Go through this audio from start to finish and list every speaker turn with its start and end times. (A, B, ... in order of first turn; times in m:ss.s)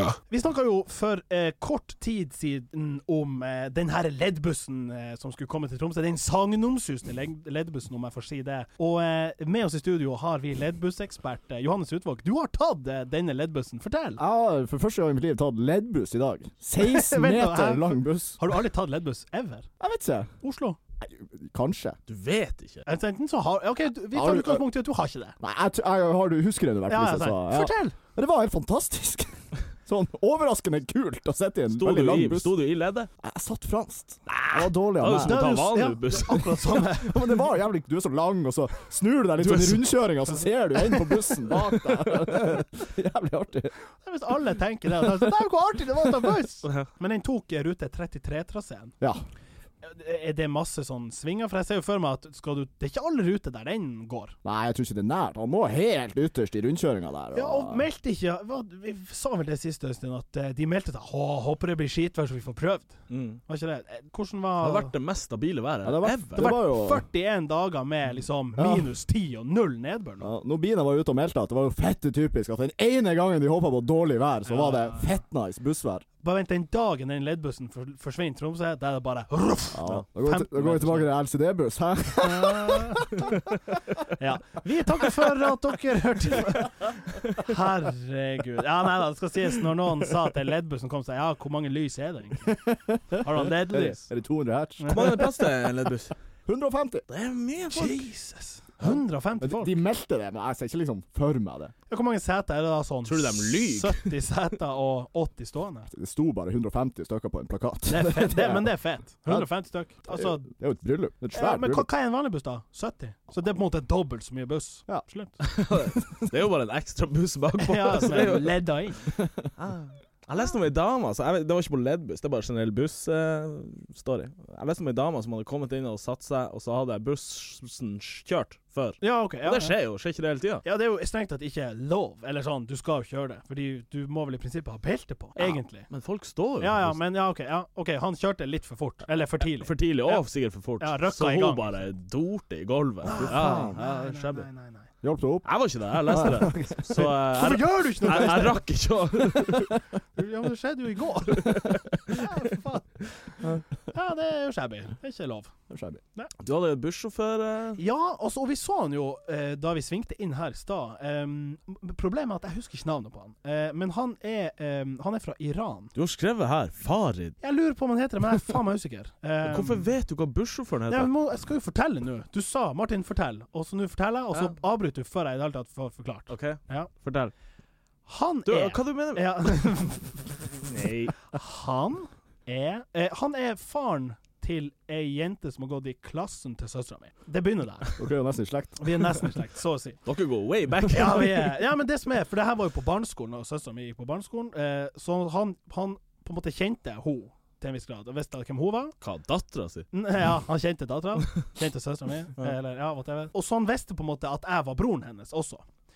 0:00.3-0:14.2 A
0:14.2-0:18.4 B
0:16.8-0:19.7 A
0:19.8-0:20.3 B
0:20.4-0:20.8 A
0:21.0-0:22.0 B
0:22.1-0:22.8 C
0:22.8-0:25.4 A
0:24.1-0:24.6 B
0:25.4-0:29.3 B
0:26.9-0:28.0 A
0:29.8-0:32.5 B
0:31.7-0:33.1 C
0:33.2-0:35.6 B
0:34.4-0:36.7 C
0:35.2-0:37.4 A
0:36.3-0:43.7 B
0:39.4-0:39.8 C
0:41.5-0:42.3 C
0:44.0-0:48.9 A
0:45.0-0:45.3 B
0:49.8-0:54.3 A
0:54.4-0:57.8 B
0:57.3-1:02.9 A
1:03.1-1:03.4 C
1:03.5-1:04.9 A
1:04.6-1:06.6 C
1:05.8-1:07.0 B
1:06.4-1:10.3 A
1:08.6-1:08.9 B
1:10.2-1:16.0 B
1:14.5-1:15.1 A
1:16.2-1:21.1 A
1:19.7-1:23.4 B
1:22.2-1:23.3 A
1:24.0-1:32.6 A
1:32.5-1:35.4 B
1:33.1-1:34.1 A
1:34.8-1:35.2 A
1:34.9-1:36.1 C
1:36.4-1:37.0 B
1:37.1-1:38.1 C
1:37.7-1:39.8 A
1:38.8-1:41.7 B
1:41.9-1:45.9 A
1:43.0-1:44.1 C
1:45.9-1:48.7 B
1:47.9-1:50.5 A
1:50.1-1:51.9 B
1:51.3-1:55.4 A
1:55.4-1:58.6 C
1:57.6-1:59.1 A
1:59.2-1:59.5 B
1:59.6-2:10.6 C
2:09.0-2:09.7 A
2:10.6-2:15.9 A
2:15.4-2:17.0 C
2:16.6-2:20.2 A
2:19.4-2:24.5 C
2:20.8-2:21.8 A
2:23.0-2:24.9 A
2:23.1-2:23.8 B
2:25.0-2:25.5 B
2:25.4-2:29.7 C
2:26.0-2:27.1 B
2:27.0-2:28.6 A
2:28.1-2:28.4 B
2:29.3-2:29.8 B
2:30.2-2:33.0 A
2:31.4-2:32.2 C
2:33.9-2:35.5 A
2:35.7-2:36.0 B
2:36.4-2:37.8 C
2:37.8-2:45.9 A
2:45.9-2:47.4 C
2:47.4-2:49.8 A
2:49.4-2:51.1 C
2:50.9-2:56.9 A
2:56.3-2:57.3 C
2:58.1-3:00.2 A
2:58.5-2:59.6 C
3:00.6-3:01.2 C
3:01.3-3:07.9 A
3:08.0-3:09.3 B
3:08.8-3:10.0 A
3:10.0-3:11.5 C
3:10.8-3:18.9 A
3:19.0-3:19.8 C
3:19.9-3:25.6 A